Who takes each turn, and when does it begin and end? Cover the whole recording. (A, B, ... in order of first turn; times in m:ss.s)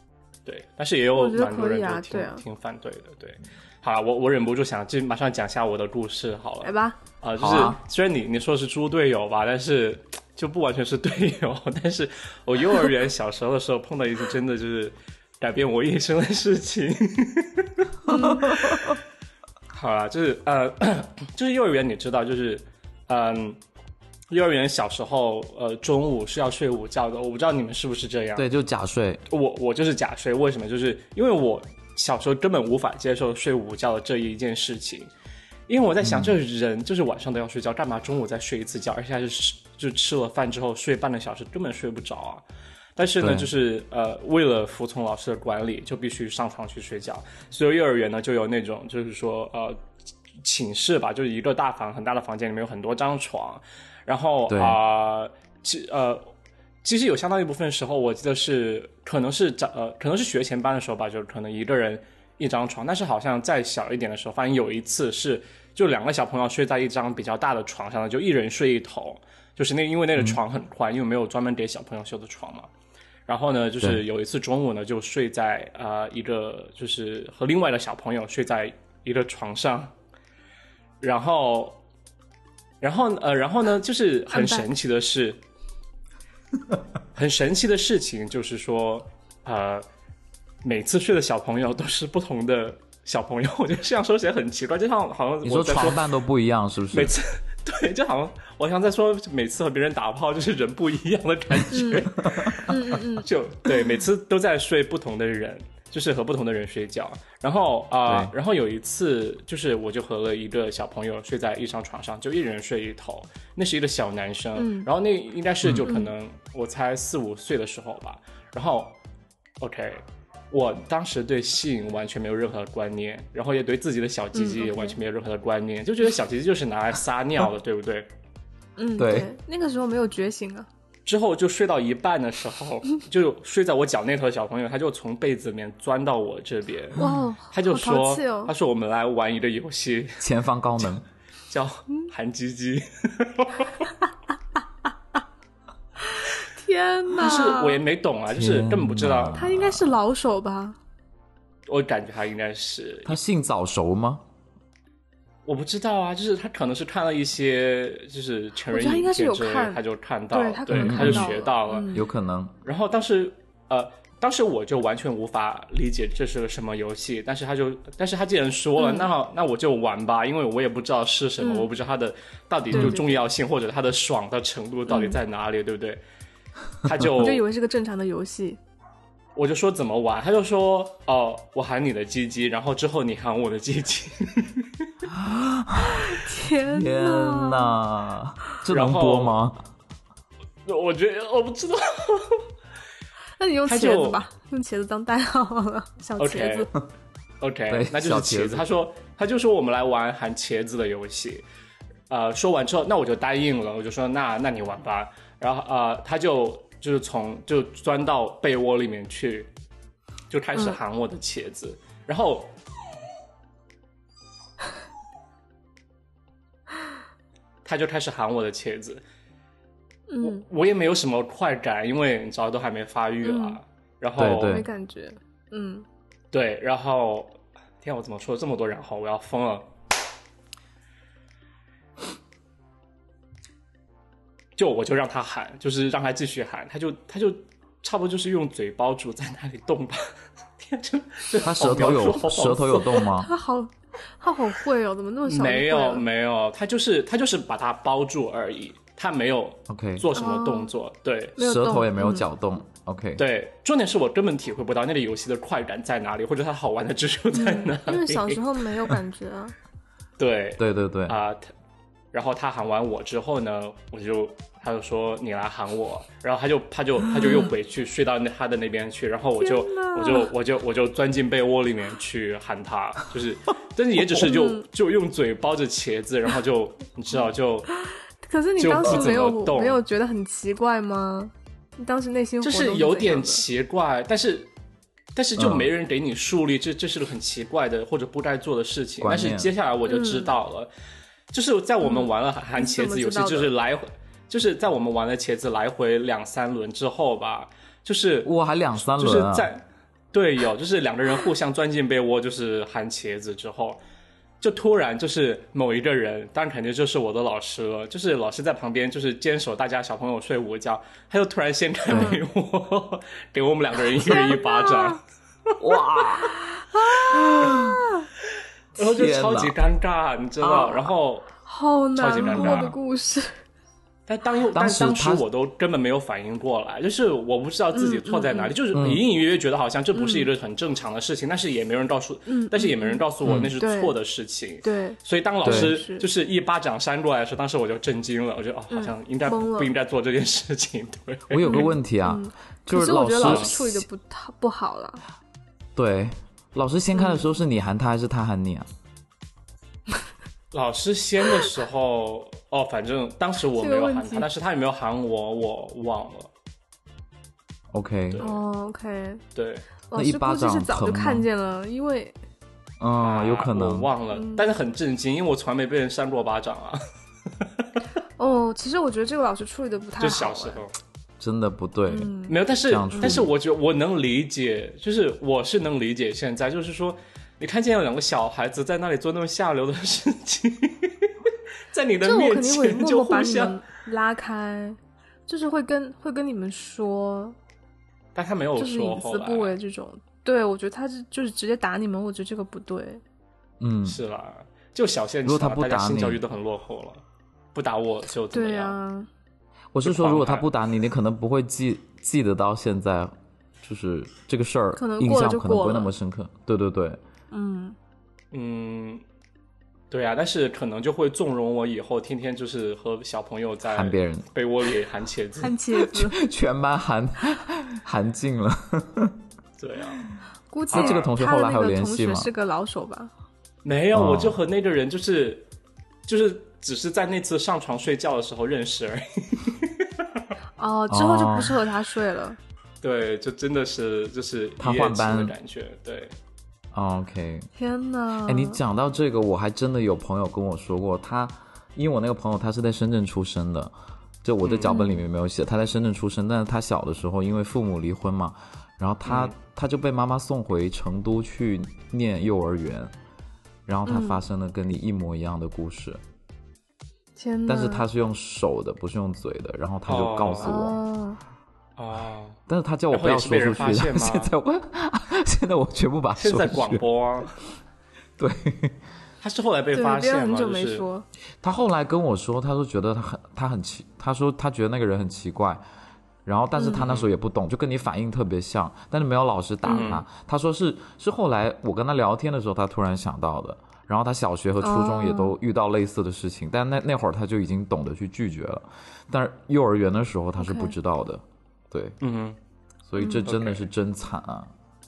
0:00.4-0:18.8 A
0:01.1-0:02.4 B
0:06.6-0:07.0 B
0:07.4-0:07.8 C
0:18.1-0:18.6 B
0:18.1-0:18.8 C
0:19.7-0:23.6 A
0:24.3-0:28.4 A
0:28.4-0:29.2 C
0:29.3-0:35.1 A
0:35.7-0:42.4 A
0:36.0-0:36.4 C
0:43.0-0:49.8 A
0:43.2-0:43.5 C
0:50.4-0:56.3 A
0:54.5-0:54.8 C
0:56.8-1:12.7 A
1:13.3-1:19.9 A
1:21.0-1:21.8 A
1:22.8-1:25.4 A
1:24.3-1:24.6 B
1:27.1-1:29.8 A
1:30.6-1:36.1 A
1:35.4-1:37.1 C
1:36.9-1:58.9 A
1:41.7-1:42.1 B
1:42.6-1:43.3 B
1:48.1-1:48.3 C
1:54.6-1:54.9 B
1:55.8-1:56.1 B
1:59.6-2:08.1 A
2:04.3-2:05.0 B
2:08.8-2:10.7 B
2:09.0-2:09.3 C
2:11.0-2:20.2 A
2:17.0-2:18.5 B
2:20.2-2:21.0 C
2:21.5-2:23.9 A
2:26.2-2:27.8 B
2:27.2-2:29.4 A
2:28.3-2:30.0 C
2:29.3-2:30.8 B
2:31.7-2:33.2 A
2:33.0-2:34.2 C
2:35.4-2:41.9 A
2:38.7-2:42.0 B
2:40.7-2:41.3 C
2:41.9-2:42.5 C
2:42.6-2:56.0 A
2:48.8-2:49.1 B
2:51.4-2:51.7 B
2:52.7-2:53.0 C
2:52.7-2:53.2 B
2:54.9-2:55.2 B
2:56.8-2:57.4 A
2:57.2-2:58.6 B
2:59.4-3:04.7 A
3:05.1-3:09.6 C
3:05.8-3:07.8 B
3:08.7-3:09.4 A
3:10.6-3:12.4 A
3:13.4-3:16.7 B
3:13.6-3:14.2 A
3:16.2-3:16.7 A
3:17.4-3:21.4 A
3:17.7-3:18.6 C
3:22.1-3:29.5 A
3:30.3-3:32.5 A
3:37.6-3:39.0 A
3:40.1-3:40.4 B
3:40.2-3:44.6 A
3:43.2-3:43.6 B
3:44.2-3:44.7 C
3:44.4-3:45.8 B
3:46.3-3:49.7 A
3:54.6-4:00.0 A
4:00.6-4:03.1 A
4:01.4-4:03.3 C
4:03.2-4:06.0 B
4:05.2-4:11.4 A
4:09.7-4:10.1 C
4:10.1-4:10.7 B
4:11.4-4:12.2 B
4:11.4-4:13.2 C
4:13.2-4:18.4 A
4:17.3-4:19.5 B
4:20.2-4:21.5 A
4:20.6-4:21.2 C
4:22.1-4:37.7 A
4:29.4-4:30.3 B
4:34.2-4:34.6 B
4:38.2-4:43.4 B
4:38.6-4:39.8 A
4:42.4-4:44.5 A
4:45.1-4:50.7 A
4:45.4-4:45.7 C
4:49.0-4:49.5 C
4:49.9-4:50.3 B
4:51.3-4:58.3 A
4:51.8-4:53.5 B
4:58.2-4:59.5 C
4:58.9-5:03.8 A
5:04.4-5:15.0 A
5:11.9-5:12.2 B
5:11.9-5:12.2 C
5:14.0-5:15.0 B
5:15.6-5:16.4 C
5:16.7-5:18.0 B
5:17.1-5:17.8 C
5:18.8-5:21.3 A
5:18.8-5:19.5 C
5:20.4-5:20.9 C
5:21.4-5:23.4 B
5:22.0-5:22.8 A
5:22.3-5:22.6 C
5:24.1-5:41.7 A
5:24.5-5:25.2 C
5:27.7-5:28.5 B
5:28.7-5:29.0 C
5:29.9-5:30.3 B
5:32.3-5:33.0 B
5:33.2-5:33.5 C
5:33.6-5:34.0 B
5:34.6-5:36.1 B
5:35.4-5:35.8 C
5:38.7-5:39.7 B
5:41.3-5:43.8 C
5:41.4-5:45.0 B
5:43.2-5:43.5 A
5:45.8-5:48.7 C
5:46.9-5:47.3 B
5:50.5-5:56.3 A
5:53.6-5:54.3 B
5:57.7-5:58.2 C
5:58.1-5:58.4 A
5:58.2-5:59.2 B
5:59.3-5:59.6 A
5:59.9-6:02.1 B
5:59.9-6:01.3 C
6:02.8-6:03.9 C
6:02.9-6:06.8 A
6:04.1-6:04.5 B
6:07.4-6:07.8 A
6:08.2-6:10.6 B
6:10.0-6:10.7 A
6:11.2-6:12.1 C
6:11.9-6:12.4 B
6:12.3-6:21.1 A
6:12.6-6:13.3 C
6:12.9-6:13.2 B
6:21.7-6:23.6 A
6:22.0-6:27.4 B
6:28.1-6:29.6 A
6:28.6-6:33.0 B
6:33.6-6:34.0 C
6:33.8-6:37.0 A
6:35.2-6:36.2 C
6:37.5-6:38.8 A
6:38.3-6:39.1 B
6:39.7-6:47.0 C
6:39.8-6:40.5 A
6:44.8-6:45.9 B
6:47.3-6:47.8 B
6:48.3-6:49.0 A
6:49.9-6:55.6 A
6:53.7-6:54.3 C
6:55.4-6:56.2 B
6:55.7-6:59.2 C
6:59.6-7:00.0 A
7:00.5-7:03.1 B
7:00.7-7:01.1 A
7:00.7-7:02.3 C
7:03.6-7:05.5 A
7:03.9-7:04.4 C
7:06.1-7:10.0 A
7:10.6-7:12.4 B
7:10.9-7:11.6 C
7:12.8-7:16.1 A
7:14.6-7:15.3 C
7:16.7-7:17.5 C
7:17.6-7:18.6 B
7:18.2-7:23.7 C
7:24.2-7:32.9 C
7:24.4-7:24.8 A
7:24.6-7:25.0 B
7:29.0-7:29.3 A
7:33.7-7:36.0 C
7:33.8-7:34.2 B
7:37.2-7:37.9 B
7:37.5-7:40.8 C
7:39.9-7:40.6 A
7:40.4-7:41.2 B
7:41.8-7:42.4 A
7:42.5-7:46.8 C
7:42.9-7:44.3 A
7:46.2-7:47.3 A
7:48.2-7:48.8 C
7:49.2-7:50.8 A
7:49.7-7:51.0 B
7:51.4-7:55.6 C
7:56.2-8:12.0 C
7:56.6-7:56.9 B
7:56.8-7:57.1 A
7:59.6-7:59.9 B
7:59.7-8:00.0 A
8:04.6-8:05.4 B
8:10.4-8:10.7 B
8:12.0-8:12.4 A
8:12.9-8:14.5 C
8:13.0-8:13.3 B
8:13.2-8:13.7 A